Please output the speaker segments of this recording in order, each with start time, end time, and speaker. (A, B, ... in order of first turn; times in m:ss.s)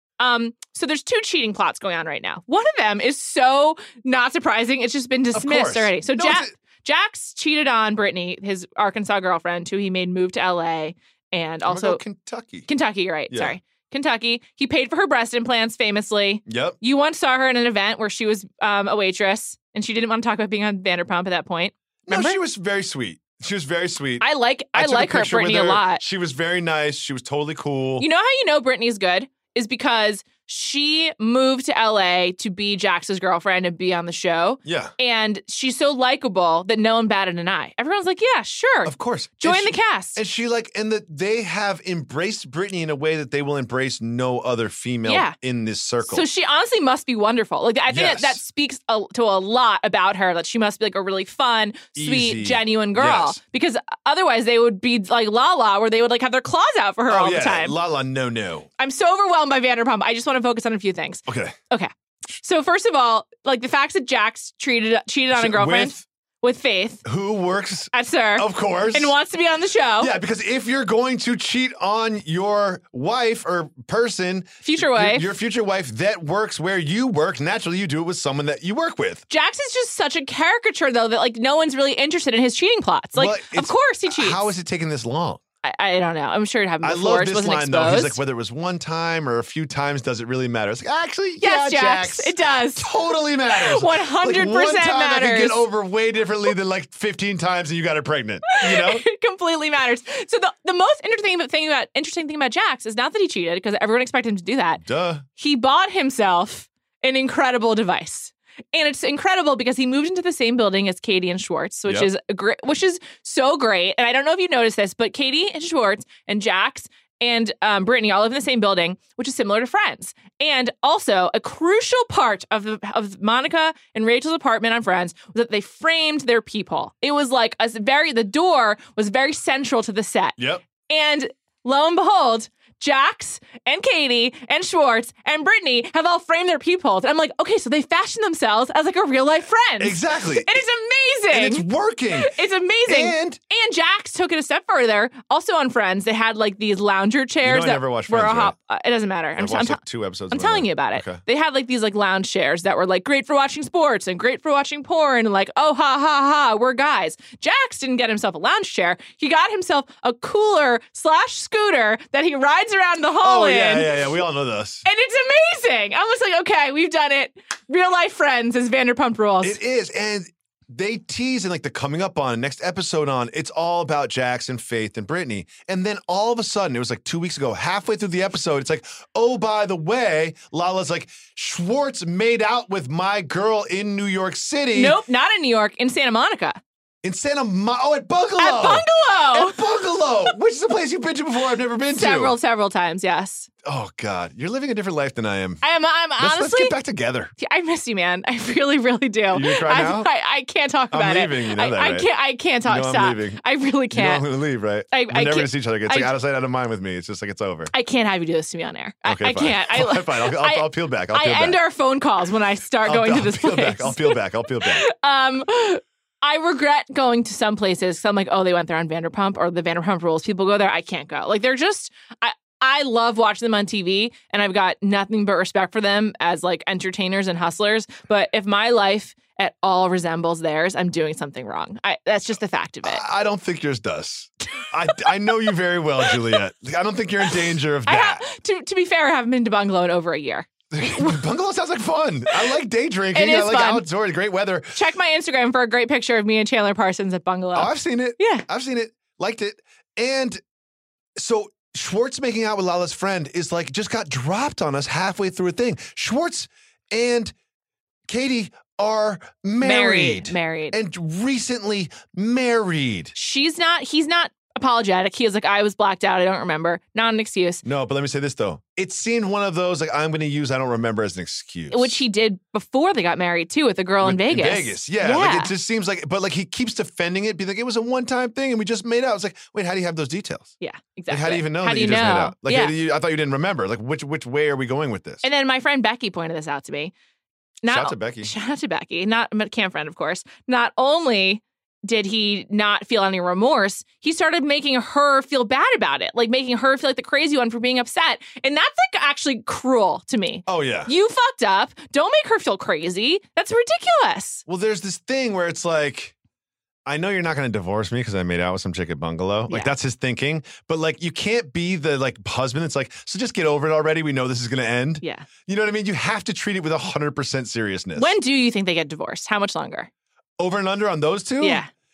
0:00.2-0:12.0 A
0:05.3-0:06.5 B
0:11.6-0:12.7 B
0:12.7-0:22.4 A
0:13.3-0:13.6 B
0:16.5-0:16.8 B
0:22.1-0:28.1 B
0:24.2-0:26.0 A
0:28.0-0:40.2 A
0:34.6-0:34.9 B
0:38.8-0:46.2 B
0:45.0-0:45.3 A
0:46.0-0:57.8 A
0:47.9-0:48.4 B
0:51.9-0:53.4 B
0:57.1-0:58.7 B
0:58.8-1:07.0 A
1:01.3-1:01.5 B
1:05.3-1:06.0 B
1:07.0-1:09.1 B
1:07.9-1:10.1 A
1:10.0-1:19.2 B
1:14.6-1:15.4 A
1:19.3-1:24.5 A
1:23.1-1:25.4 B
1:25.6-1:28.2 A
1:26.8-1:39.0 B
1:31.4-1:32.9 A
1:33.5-1:35.7 A
1:38.5-1:44.8 A
1:44.8-1:45.2 B
1:45.4-2:44.0 A
2:10.4-2:10.6 B
2:19.8-2:20.6 B
2:21.3-2:22.3 B
2:22.8-2:23.4 B
2:27.4-2:28.5 B
2:29.4-2:31.2 B
2:43.2-2:44.8 B
2:44.8-2:49.6 A
2:49.4-3:05.0 B
3:04.7-3:06.6 A
3:07.0-3:12.4 B
3:08.4-3:10.3 A
3:11.9-3:13.5 A
3:13.6-3:15.6 B
3:15.6-3:16.8 A
3:16.2-3:17.3 B
3:17.4-3:24.3 A
3:19.3-3:20.1 B
3:20.9-3:22.1 B
3:22.6-3:27.7 B
3:24.9-3:26.1 A
3:27.7-3:53.0 A
3:29.0-3:31.6 B
3:32.8-3:34.8 B
3:52.8-3:58.2 B
3:55.0-3:55.5 A
3:57.8-4:01.2 A
4:00.7-4:04.8 B
4:02.3-4:02.5 A
4:03.1-4:03.8 A
4:04.7-4:08.4 A
4:07.5-4:10.4 B
4:11.2-4:17.3 B
4:18.1-4:23.1 B
4:19.6-4:20.8 A
4:23.1-4:27.6 A
4:27.6-4:32.0 B
4:31.7-4:35.5 A
4:34.0-4:40.5 B
4:40.6-4:42.7 A
4:41.1-4:45.2 B
4:45.2-4:46.9 A
4:47.6-5:04.4 A
4:47.7-4:48.3 B
5:00.5-5:00.9 B
5:04.5-5:06.1 B
5:06.8-5:18.2 B
5:09.5-5:09.7 A
5:15.0-5:15.3 A
5:18.0-5:19.9 A
5:20.4-5:21.6 B
5:21.4-5:21.7 A